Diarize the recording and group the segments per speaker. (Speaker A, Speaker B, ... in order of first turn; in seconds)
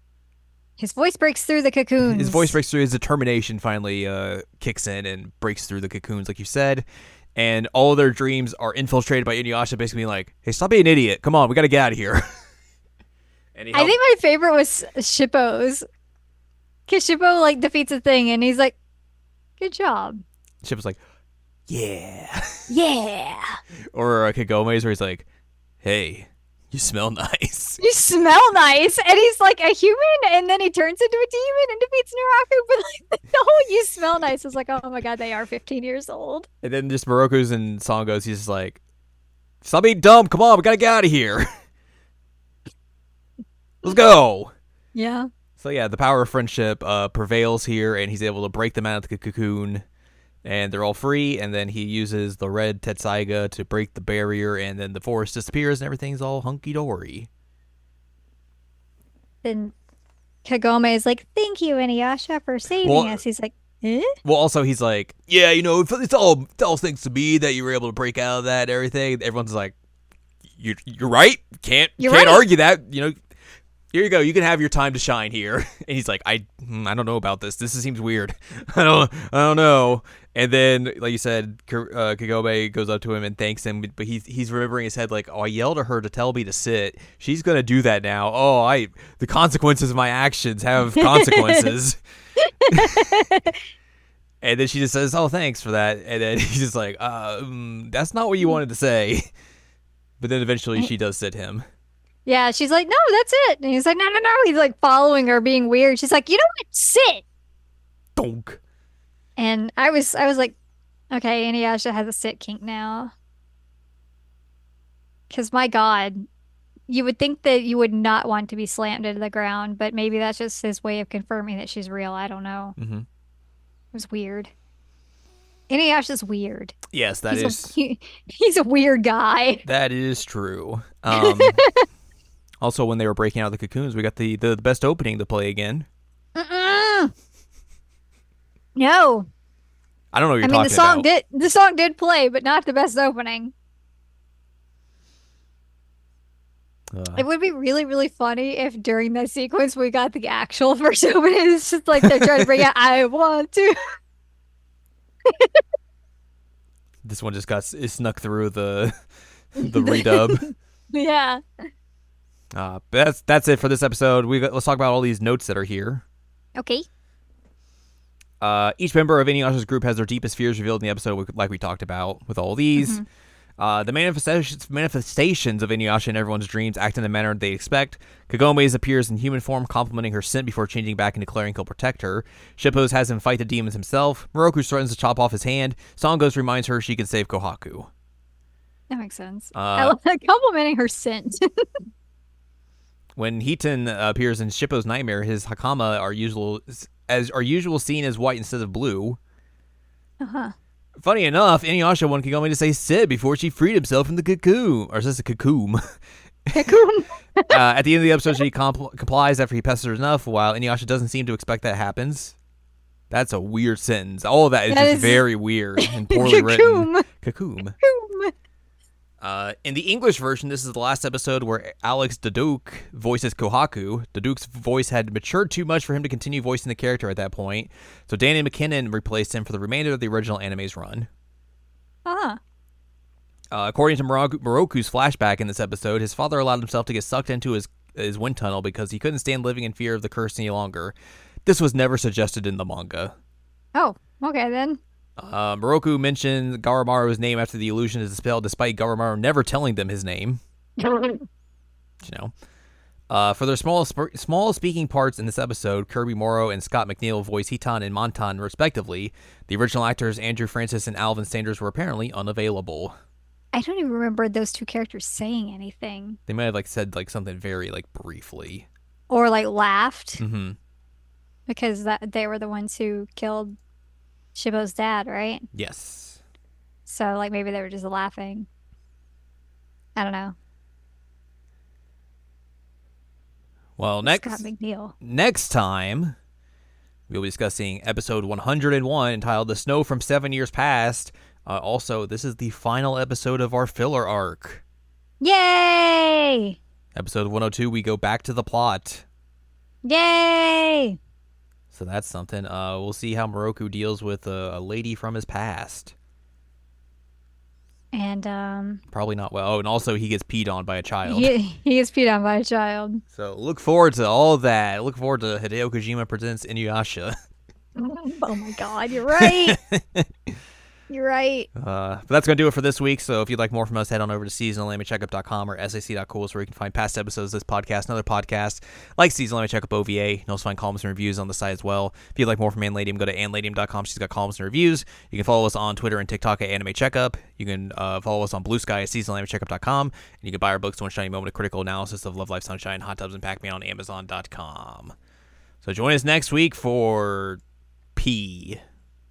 Speaker A: 0.8-2.6, 13.7-15.8, 16.9-18.8, 19.6-20.2, 22.7-23.6, 27.8-36.5, 45.0-45.3, 59.4-59.7, 60.5-64.1, 72.0-72.5, 90.8-91.7, 92.7-93.6, 102.3-107.2, 109.4-110.6, 111.1-113.1, 115.3-116.3, 116.9-122.8, 123.9-124.5, 125.7-126.8, 127.3-129.6, 131.1-131.8, 136.4-137.1, 138.8-139.3, 140.4-143.5, 147.2-153.8, 159.6-160.4, 160.9-161.4, 166.6-166.9, 172.8-173.1, 188.9-191.4, 200.2-200.5, 206.5-207.5, 214.7-215.2, 215.8-217.1, 217.8-218.3, 232.1-232.4, 243.8-244.8, 250.8-251.2, 263.5-266.2, 269.1-270.2, 271.5-273.6, 274.4-275.5, 276.9-278.5, 280.0-280.4, 284.0-284.9, 295.2-296.6, 299.8-301.0, 307.9-308.8, 311.1-313.0, 317.8-319.6, 320.9-321.5
Speaker B: 2.0-12.2, 13.6-14.0, 20.6-21.0, 21.7-22.7, 23.9-25.3, 25.8-27.8, 36.6-38.8, 39.6-41.5, 43.8-44.5, 45.6-49.8, 50.4-57.3, 62.8-63.2, 64.2-69.8, 70.6-73.2, 73.9-92.0, 92.7-93.2, 94.4-99.3, 100.2-101.7, 108.2-108.6, 122.8-123.1, 126.9-127.8, 129.6-131.6, 132.6-135.9, 140.1-141.1, 146.9-147.2, 157.1-158.9, 159.6-160.5, 162.5-166.0, 168.4-173.0, 173.6-187.9, 189.5-190.0, 193.2-199.2, 201.0-205.8, 207.5-212.4, 213.1-217.8, 219.2-231.1, 233.5-243.1, 245.2-250.4, 252.0-252.3, 253.1-262.9, 266.3-268.7, 270.2-270.6, 275.5-276.2, 283.8-284.5, 285.0-286.2, 287.1-294.6, 296.9-299.1, 301.7-305.9, 308.9-311.3, 313.1-317.1, 319.2-320.1, 321.6-344.9, 345.6-347.4, 348.0-348.6